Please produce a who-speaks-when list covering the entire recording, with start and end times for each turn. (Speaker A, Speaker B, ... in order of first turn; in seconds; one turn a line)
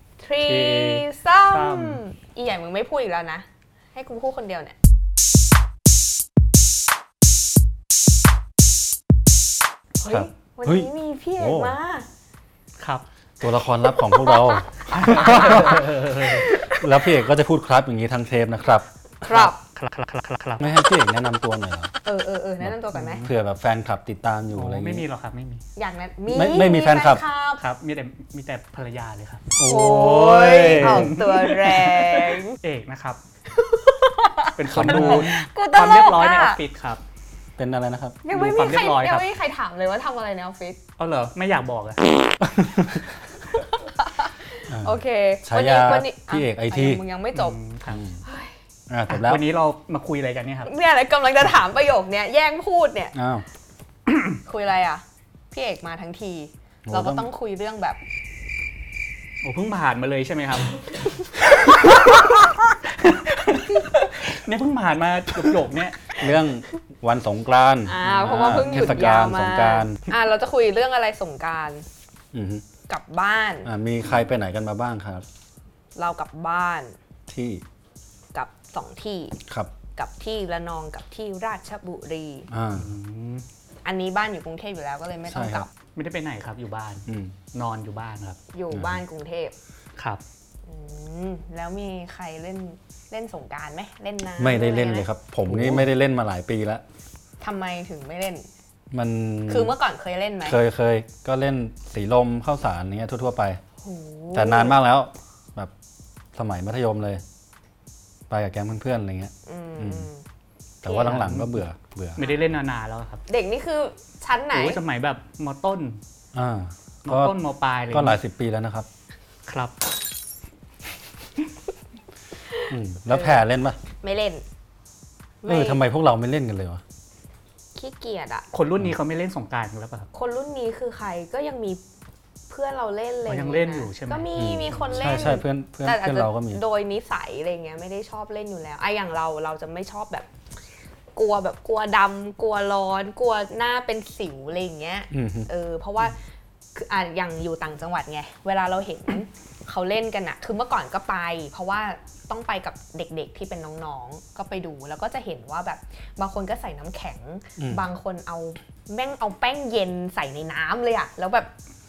Speaker A: 0.2-4.7
Speaker B: 0.4-2.0
Speaker A: 10.0-12.1
Speaker C: 10.1-11.8
Speaker B: 12.8-13.1
Speaker C: 13.4-16.0
Speaker A: 13.9-16.8
Speaker B: 14.9-16.5
Speaker C: 16.6-18.9
Speaker A: 19.2-19.6
Speaker B: 19.3-20.7
Speaker C: 20.6-21.9
Speaker A: 22.0-23.3
Speaker C: 22.6-25.0
Speaker B: 22.9-23.3
Speaker B: 24.6-25.6
Speaker A: 25.8-27.6
Speaker C: 26.3-27.2
Speaker B: 27.6-29.6
Speaker C: 29.6-31.2
Speaker A: 29.6-32.6
Speaker B: 30.4-33.2
Speaker A: 33.5-36.6
Speaker B: 34.6-37.0
Speaker C: 34.7-35.3
Speaker C: 37.6-38.2
Speaker A: 38.2-40.8
Speaker B: 38.3-39.3
Speaker B: 41.0-42.0
Speaker C: 42.5-43.1
Speaker A: 43.5-47.6
Speaker C: 44.7-47.0
Speaker B: 47.4-48.0
Speaker C: 47.9-48.2
Speaker A: 48.2-48.5
Speaker C: 48.9-49.4
Speaker B: 49.1-50.7
Speaker A: 50.6-53.1
Speaker C: 53.1-53.5
Speaker A: 54.5-58.0
Speaker C: 56.9-57.3
Speaker B: 59.4-66.1
Speaker A: 63.7-64.0
Speaker C: 66.1-70.1
Speaker A: 67.8-71.9
Speaker B: 68.4-68.9
Speaker C: 72.3-72.6
Speaker A: 72.9-73.7
Speaker C: 73.7-75.2
Speaker A: 76.0-77.0
Speaker C: 77.3-77.6
Speaker A: 78.3-79.4
Speaker C: 79.5-79.7
Speaker A: 80.0-82.5
Speaker C: 82.5-82.9
Speaker B: 82.7-83.5
Speaker A: 83.8-85.7
Speaker C: 85.3-85.7
Speaker B: 86.0-88.4
Speaker C: 87.1-87.4
Speaker A: 88.5-89.5
Speaker C: 88.7-89.0
Speaker B: 90.0-90.2
Speaker A: 90.7-95.1
Speaker C: 94.4-96.8
Speaker B: 95.5-95.9
Speaker A: 97.4-98.5
Speaker C: 98.9-99.8
Speaker A: 99.5-100.6
Speaker C: 100.4-103.6
Speaker A: 103.8-104.8
Speaker C: 104.3-105.7
Speaker C: 106.3-107.2
Speaker C: 108.3-110.1
Speaker A: 109.5-110.2
Speaker C: 110.8-112.2
Speaker A: 110.8-111.3
Speaker B: 111.0-111.6
Speaker B: 112.2-113.2
Speaker A: 113.3-114.8
Speaker B: 114.5-116.0
Speaker C: 116.3-117.4
Speaker B: 117.1-118.2
Speaker C: 117.9-118.9
Speaker B: 119.5-119.8
Speaker A: 122.6-123.4
Speaker C: 122.7-123.8
Speaker A: 124.0-124.5
Speaker A: 125.4-125.8
Speaker C: 125.5-126.8
Speaker A: 127.8-128.5
Speaker B: 128.5-130.1
Speaker A: 130.1-131.8
Speaker A: 132.5-140.3
Speaker B: 133.3-134.3
Speaker C: 134.4-136.6
Speaker A: 141.2-146.2
Speaker C: 145.1-145.5
Speaker A: 146.8-161.5
Speaker C: 157.6-157.8